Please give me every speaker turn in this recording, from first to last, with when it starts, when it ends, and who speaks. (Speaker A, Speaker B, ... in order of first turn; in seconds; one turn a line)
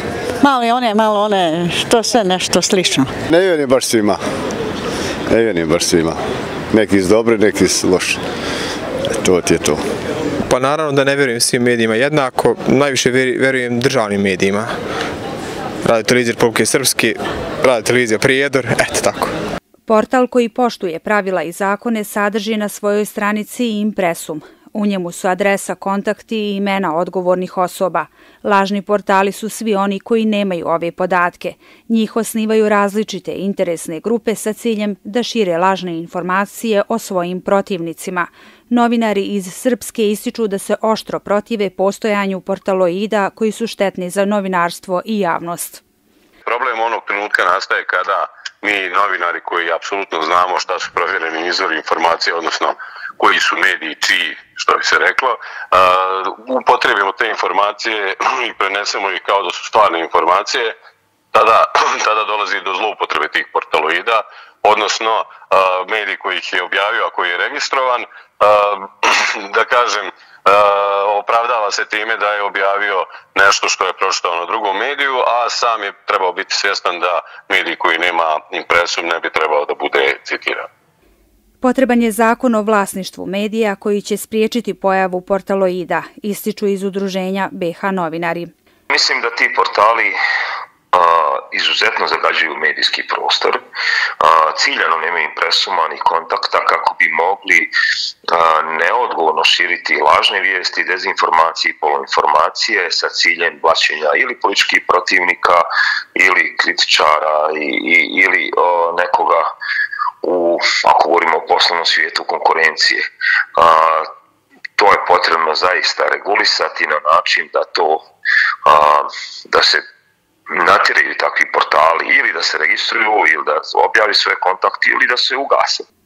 Speaker A: 0.4-3.1
Speaker B: 3.3-4.2
Speaker B: 5.3-6.2
Speaker B: 6.7-8.2
Speaker B: 9.1-9.8
Speaker C: 10.5-14.7
Speaker C: 15.8-19.3
Speaker D: 19.9-45.8
Speaker E: 46.5-60.7
Speaker E: 61.3-80.7
Speaker D: 81.6-88.5
Speaker F: 88.9-90.2
Speaker F: 90.9-93.6
Speaker F: 94.2-97.7
Speaker F: 98.3-109.5
Speaker F: 110.2-113.0
Speaker F: 113.5-114.1
Speaker F: 114.8-118.0
Speaker F: 118.6-119.8
Speaker F: 120.5-125.8